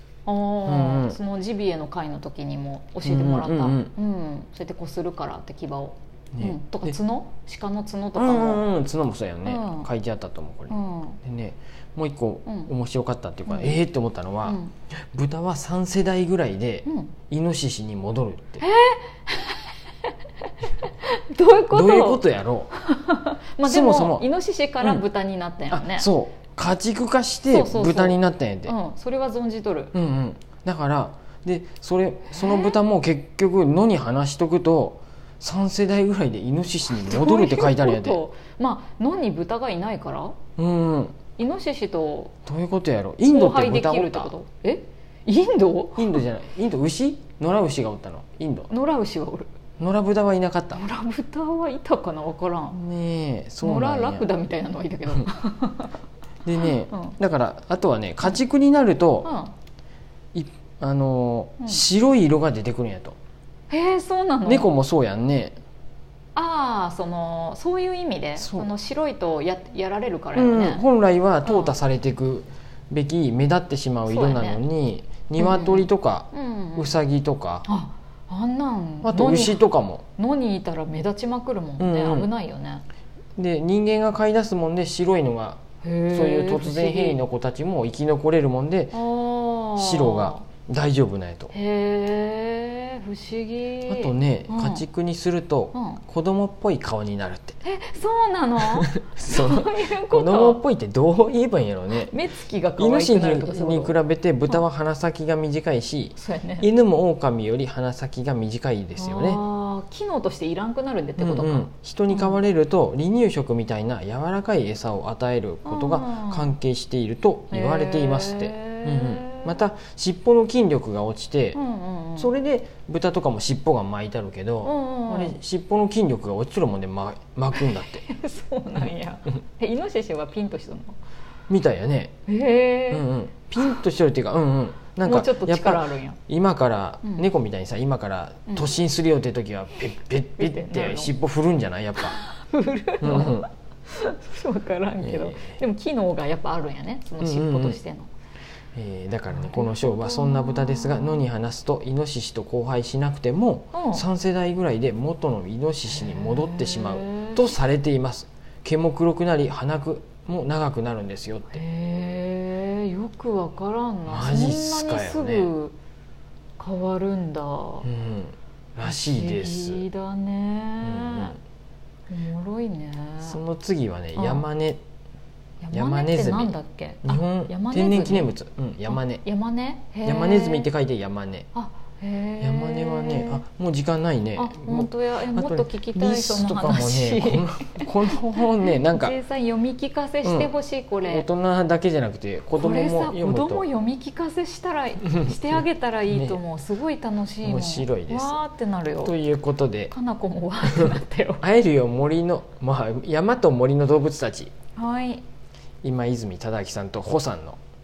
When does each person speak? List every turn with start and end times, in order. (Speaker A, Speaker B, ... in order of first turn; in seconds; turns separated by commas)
Speaker A: 0.2-8.7, Speaker B: 0.7-1.2, Speaker B: 3.0-3.9, Speaker B: 6.3-7.0, Speaker B: 8.2-18.6, Speaker A: 9.4-9.9, Speaker A: 10.7-11.2, Speaker A: 12.4-12.7, Speaker A: 13.5-13.8, Speaker A: 14.4-14.7, Speaker A: 16.8-17.1, Speaker A: 18.6-19.7, Speaker A: 20.8-26.1, Speaker B: 21.7-22.7, Speaker B: 23.6-24.3, Speaker B: 25.7-28.7, Speaker A: 27.5-29.9, Speaker B: 29.9-38.2, Speaker A: 32.3-32.8, Speaker A: 36.9-40.4, Speaker B: 40.6-41.1, Speaker A: 41.4-42.3, Speaker B: 42.5-44.3, Speaker A: 43.3-46.2, Speaker B: 46.0-48.7, Speaker A: 48.7-49.5, Speaker B: 49.8-50.9, Speaker A: 50.7-52.8, Speaker B: 52.7-54.3, Speaker A: 53.6-56.0, Speaker B: 56.4-59.3, Speaker A: 56.6-57.1, Speaker A: 59.2-59.5, Speaker B: 60.3-63.2, Speaker A: 63.7-64.7, Speaker B: 64.4-65.6, Speaker A: 66.3-70.8, Speaker B: 68.4-68.7, Speaker B: 70.3-77.7, Speaker A: 71.4-71.7, Speaker A: 74.1-74.6, Speaker A: 75.4-77.0, Speaker A: 77.7-79.6, Speaker B: 79.0-80.0, Speaker A: 80.2-82.8, Speaker B: 81.8-82.3, Speaker B: 83.4-89.0, Speaker A: 85.8-87.2, Speaker A: 88.9-90.4, Speaker B: 89.8-91.5, Speaker A: 91.5-94.8, Speaker B: 93.9-97.6, Speaker A: 95.7-96.0, Speaker A: 97.6-100.6, Speaker B: 98.6-102.1, Speaker A: 101.9-104.0, Speaker B: 102.8-109.4, Speaker A: 106.2-106.7, Speaker A: 109.0-112.4, Speaker B: 111.2-121.6, Speaker A: 115.6-116.5, Speaker A: 117.5-119.6, Speaker A: 121.5-122.3, Speaker B: 122.2-128.1, Speaker A: 124.6-125.4, Speaker A: 127.5-131.0, Speaker B: 131.5-132.1, Speaker A: 132.3-133.1, Speaker B: 132.9-142.2, Speaker A: 135.0-136.2, Speaker A: 140.4-141.1, Speaker A: 142.1-148.1, Speaker B: 143.0-143.5, Speaker B: 145.0-145.6, Speaker B: 147.2-147.8, Speaker B: 148.7-161.6, Speaker A: 149.3-151.2, Speaker A: 153.7-154.0, Speaker A: 155.9-157.5, Speaker A: 161.5-165.8, Speaker B: 164.1-165.5, Speaker A: 166.6-167.9, Speaker B: 167.8-169.8, Speaker A: 168.8-171.4, Speaker B: 170.8-171.4, Speaker A: 172.1-173.4, Speaker B: 173.2-174.8, Speaker A: 174.1-174.4, Speaker A: 175.6-178.3, Speaker B: 175.7-179.2, Speaker A: 178.9-180.7, Speaker B: 180.0-181.5, Speaker A: 181.5-183.4, Speaker B: 182.4-189.1, Speaker A: 184.3-191.2, Speaker B: 190.2-193.6, Speaker A: 192.5-199.1, Speaker B: 195.1-195.5, Speaker B: 196.1-196.4, Speaker B: 197.4-198.4, Speaker B: 199.0-199.9, Speaker A: 199.9-201.4, Speaker B: 200.6-204.5, Speaker A: 204.8-205.2, Speaker B: 205.8-207.6